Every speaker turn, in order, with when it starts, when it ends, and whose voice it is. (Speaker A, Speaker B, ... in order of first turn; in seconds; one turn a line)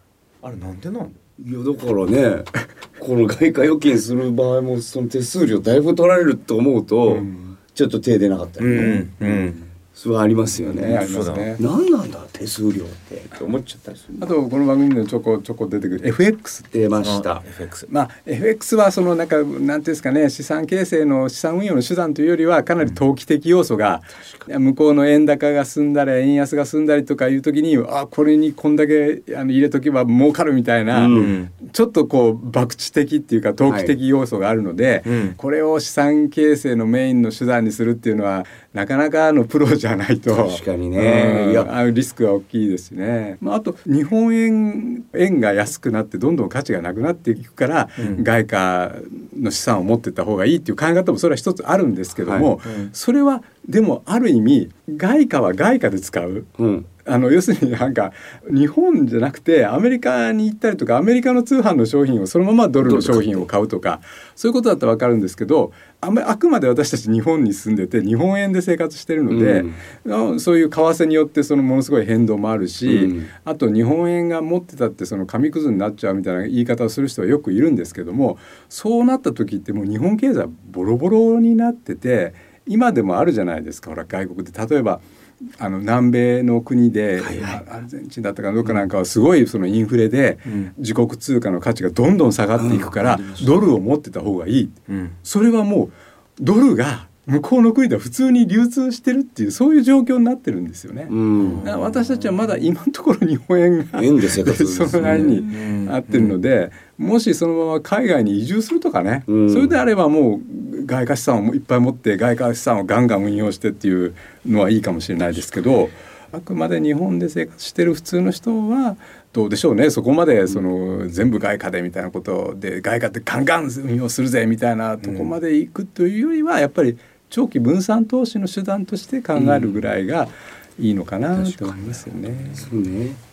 Speaker A: 0.4-1.2
Speaker B: 1.4-9.1
Speaker C: 7.1-7.4
Speaker A: 8.6-9.6
Speaker C: 9.2-9.5
Speaker B: 9.9-14.3
Speaker C: 10.7-11.6
Speaker A: 10.8-11.6
Speaker C: 14.2-16.7
Speaker B: 16.7-17.4
Speaker A: 17.0-17.9
Speaker C: 17.9-85.0
Speaker B: 30.9-31.3
Speaker A: 31.1-31.5
Speaker B: 33.6-33.9
Speaker A: 35.0-35.4
Speaker B: 40.3-41.7
Speaker A: 48.0-48.2
Speaker B: 52.2-52.5
Speaker A: 52.6-52.9
Speaker B: 56.6-56.9
Speaker B: 62.8-63.5
Speaker B: 69.3-69.8
Speaker B: 72.8-73.3
Speaker C: 85.6-132.7
Speaker B: 87.2-87.6
Speaker A: 90.5-90.7
Speaker B: 92.5-93.5
Speaker A: 94.9-95.1
Speaker B: 101.1-101.7
Speaker A: 101.4-102.3
Speaker B: 103.9-105.4
Speaker A: 105.0-106.4
Speaker B: 109.3-109.7
Speaker B: 129.3-129.8
Speaker B: 131.4-131.8
Speaker A: 132.3-132.5
Speaker B: 132.5-133.2